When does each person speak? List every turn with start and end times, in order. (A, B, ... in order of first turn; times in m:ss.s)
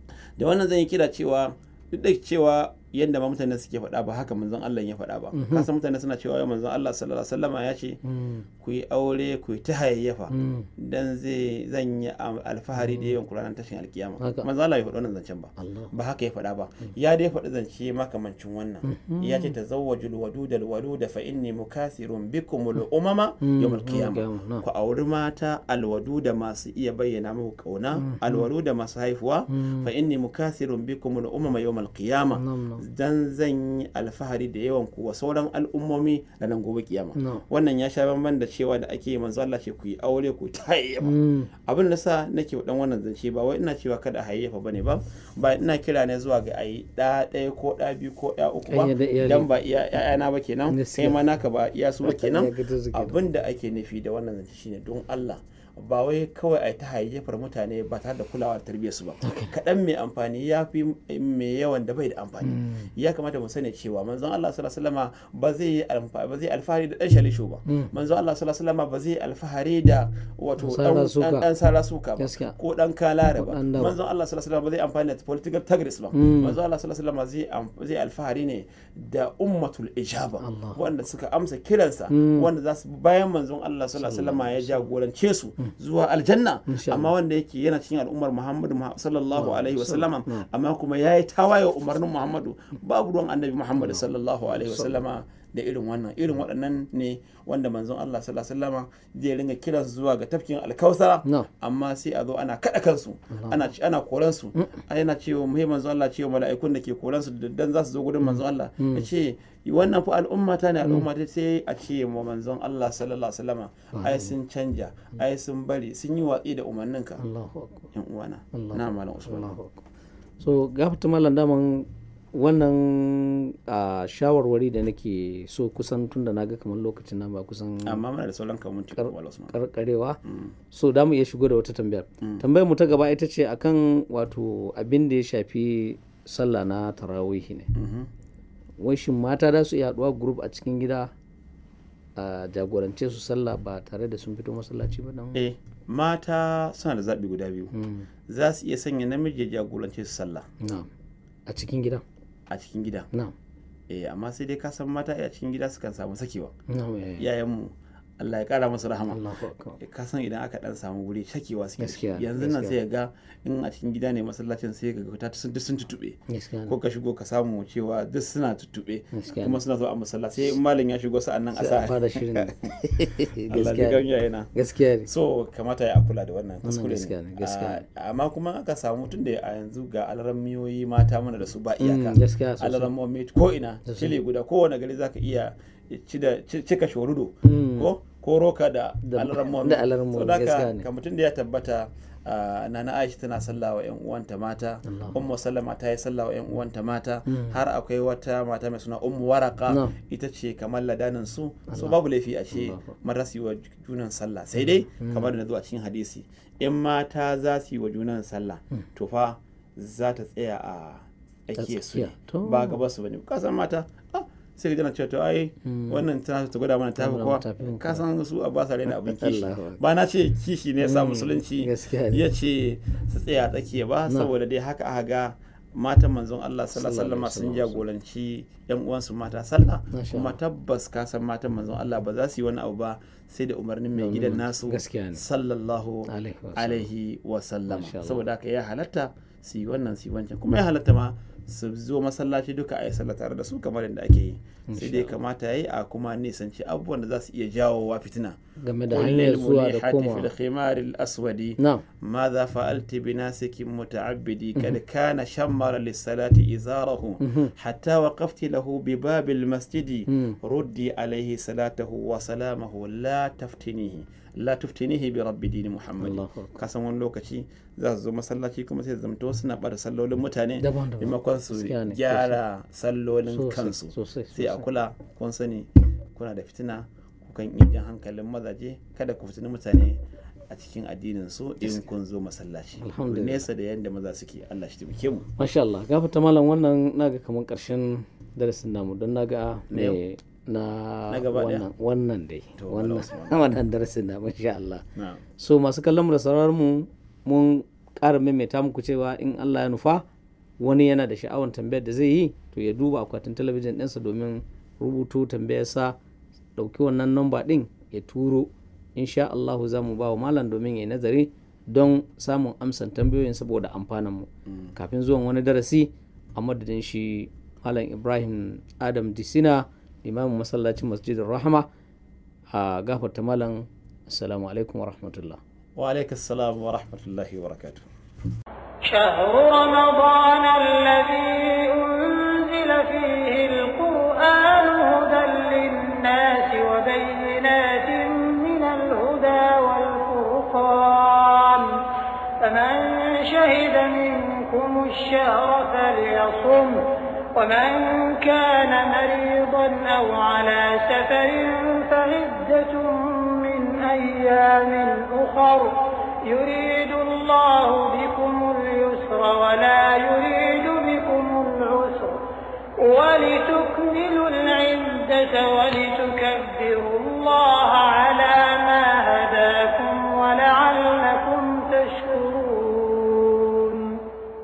0:00.4-0:08.0 A
0:05.3-0:05.7 B
0:08.0-0:08.5 B
0:08.6-1:57.2 A
0:10.3-0:10.7 B
0:12.8-0:13.1 B
0:14.2-0:14.5 B
0:15.6-0:15.9 B
0:18.8-0:19.5 B
0:23.4-0:24.6 B
0:28.0-0:28.5 B
0:29.5-0:29.9 B
0:32.3-0:32.8 B
0:37.2-0:37.4 B
0:41.0-0:41.5 B
0:48.7-0:49.5 B
0:50.7-0:51.2 B
0:52.0-0:53.2 B
0:59.2-0:59.5 B
1:02.4-1:02.9 B
1:07.7-1:07.9 B
1:10.6-1:11.5 B
1:12.2-1:12.6 B
1:13.3-1:14.0 B
1:16.1-1:16.6 B
1:20.4-1:20.8 B
1:22.1-1:22.5 B
1:24.0-1:24.8 B
1:26.7-1:27.1 B
1:29.3-1:30.5 B
1:43.3-1:43.6 B
1:48.8-1:49.1 B
1:53.9-1:54.3 B
1:57.2-1:57.9 B
1:57.9-1:59.6 A
1:58.5-1:59.8 B
2:00.4-2:08.0 B
2:07.8-2:09.5 A
2:09.0-2:10.2 B
2:10.2-2:10.5 A
2:10.7-2:17.7 B
2:17.7-2:18.1 A
2:18.8-2:21.1 B
2:22.2-2:25.4 B
2:25.3-2:27.7 A
2:27.7-2:28.1 B
2:28.3-2:30.5 A
2:30.6-2:30.9 B
2:31.5-2:32.0 B
2:32.5-2:33.1 A
2:33.9-2:36.5 A
2:36.7-2:37.3 B
2:37.2-2:39.2 A
2:39.1-2:39.8 B
2:39.8-2:54.5 A
2:41.8-2:42.8 B
2:46.3-2:46.8 B
2:49.1-2:49.6 B
2:51.6-2:55.1 B
2:55.0-4:08.4 A
2:56.6-2:57.8 B
3:01.8-3:02.9 B
3:03.8-3:04.1 B
3:07.4-3:07.9 B
3:09.0-3:10.8 B
3:14.8-3:15.2 B
3:17.3-3:17.6 B
3:19.7-3:19.9 B
3:21.7-3:22.0 B
3:22.5-3:22.9 B
3:25.0-3:25.3 B
3:31.6-3:32.8 B
3:35.6-3:36.0 B
3:37.0-3:38.0 B
3:39.0-3:39.8 B
3:40.8-3:42.2 B
3:46.7-3:47.8 B
3:49.9-3:50.4 B
3:53.9-3:55.2 B
3:56.0-3:56.9 B
3:57.7-3:58.2 B
4:04.7-4:05.1 B
4:08.6-4:10.3 B
4:08.9-4:45.3 A
4:11.6-4:11.8 B
4:17.2-4:17.5 B
4:20.1-4:20.4 B
4:26.0-4:26.6 B
4:30.6-4:32.4 B
4:33.3-4:34.7 B
4:42.8-4:43.4 B
4:45.4-4:54.8 B
4:49.7-4:50.0 A
4:51.1-4:51.6 A
4:52.6-4:53.4 A
4:55.0-4:55.2 A
4:55.4-5:00.0 B
5:00.6-5:06.0 B
5:06.6-5:21.7 B
5:22.5-5:25.4 B
5:25.8-5:27.8 A
5:28.8-5:41.9 C
5:42.4-6:02.3 C
6:02.8-6:14.0 C